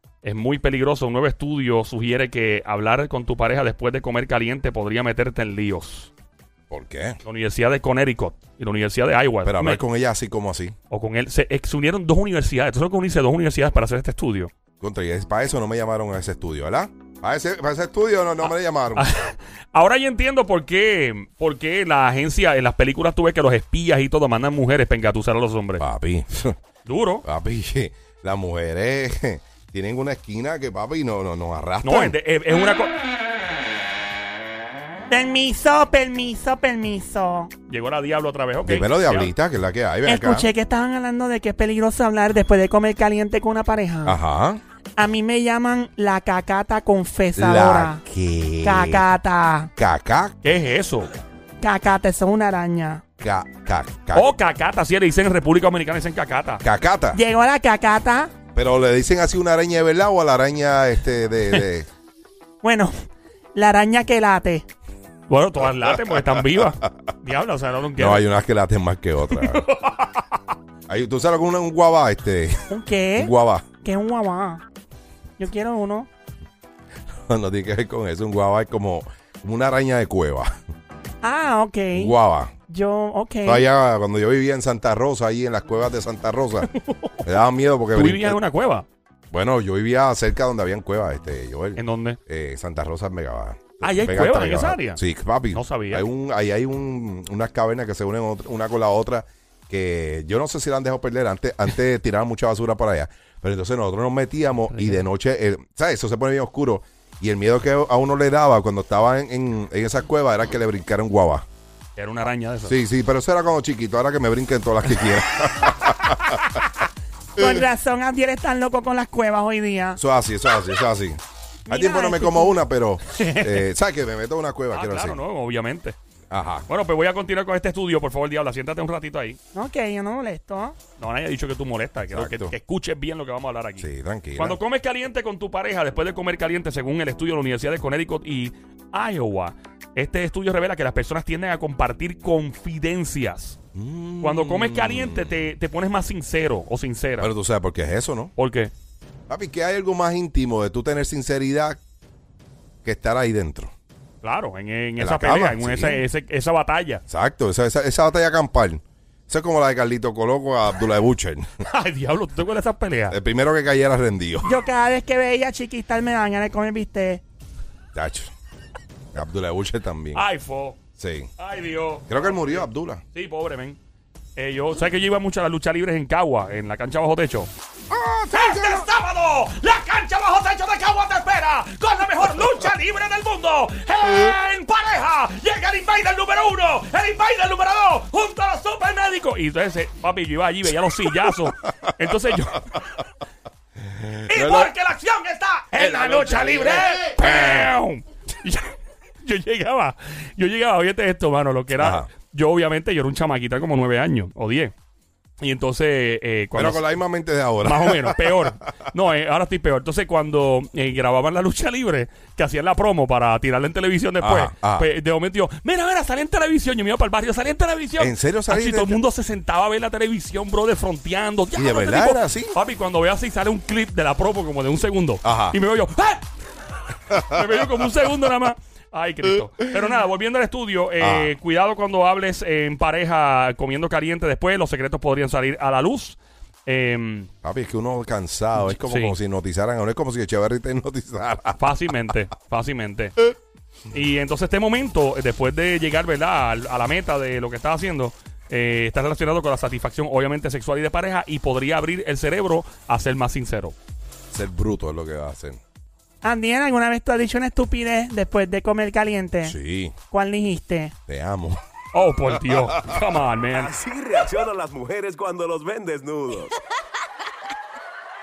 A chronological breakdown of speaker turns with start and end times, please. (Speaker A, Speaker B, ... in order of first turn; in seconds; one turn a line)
Speaker A: 0.2-6.1
Speaker B: 6.7-7.2
Speaker A: 7.2-9.8
Speaker B: 9.4-10.7
Speaker A: 10.9-14.5
Speaker B: 14.8-19.1
Speaker A: 18.9-25.8
Speaker B: 25.8-26.6
Speaker A: 26.8-27.2
Speaker B: 27.2-32.2
Speaker A: 31.8-32.9
Speaker C: 35.1-37.5
Speaker A: 37.7-39.3
Speaker B: 38.6-40.5
Speaker C: 40.0-44.2
Speaker B: 44.0-44.6
Speaker C: 45.0-48.0
Speaker B: 47.4-49.0
Speaker C: 48.6-49.7
Speaker B: 49.8-50.4
Speaker A: 50.4-51.1
Speaker C: 51.6-53.0
Speaker B: 53.2-54.3
Speaker A: 54.1-56.6
Speaker B: 56.6-57.2
Speaker C: 57.1-58.3
Speaker B: 58.5-61.9
Speaker C: 62.6-62.9
Speaker C: 63.5-64.7
Speaker A: 65.3-68.2
Speaker B: 68.0-69.7
Speaker A: 69.3-70.4
Speaker B: 70.9-73.7
Speaker C: 72.7-74.6
Speaker C: 75.4-76.1
Speaker B: 77.2-80.5
Speaker C: 81.2-82.1
Speaker B: 81.9-82.5
Speaker C: 82.7-83.6
Speaker B: 83.4-88.4
Speaker A: 86.8-87.2
Speaker A: 87.9-88.8
Speaker B: 89.3-111.4
Speaker A: 91.8-92.2
Speaker A: 93.8-96.1
Speaker A: 104.7-105.0
Speaker A: 112.0-112.8
Speaker B: 112.7-116.6
Speaker C: 117.4-120.0
Speaker B: 120.0-125.2
Speaker C: 121.7-122.6
Speaker A: 123.2-123.6
Speaker A: 124.7-126.0
Speaker B: 126.3-126.7
Speaker A: 126.7-129.4
Speaker C: 129.5-130.8
Speaker A: 131.0-143.6
Speaker B: 132.1-132.5
Speaker B: 133.8-134.6
Speaker B: 143.7-145.3
Speaker A: 144.2-147.3
Speaker B: 147.2-148.3
Speaker A: 148.3-148.7
Speaker B: 149.3-151.8
Speaker B: 152.8-153.7
Speaker A: 154.2-157.0
Speaker B: 155.0-156.0
Speaker B: 157.1-161.5
Speaker A: 161.7-163.2
Speaker B: 163.1-164.6
Speaker C: 164.4-167.2
Speaker B: 167.9-168.3
Speaker B: 169.1-170.2
Speaker A: 170.1-170.8
Speaker B: 171.0-171.3
Speaker A: 171.4-173.8
Speaker B: 172.1-173.0
Speaker A: 174.3-177.5
Speaker B: 177.9-178.9
Speaker A: 178.3-193.0
Speaker B: 193.9-194.7
Speaker A: 194.3-204.7
Speaker B: 195.8-197.6
Speaker B: 201.8-202.1
Speaker A: 205.4-206.8
Speaker B: 206.5-208.5
Speaker A: 207.6-226.2
Speaker B: 214.2-214.9
Speaker B: 218.0-219.0
Speaker B: 221.5-222.6
Speaker B: 225.2-225.6
Speaker A: 226.9-237.3
Speaker B: 227.1-227.4
Speaker B: 231.0-231.3
Speaker B: 237.4-241.7
Speaker A: 238.7-239.2
Speaker A: 241.6-243.3
Speaker A: 243.9-253.7
Speaker B: 254.3-255.6
Speaker C: 256.2-259.6
Speaker B: 259.4-259.9
Speaker C: 260.1-260.9
Speaker B: 261.1-261.6
Speaker A: 261.9-263.7
Speaker D: 263.5-266.6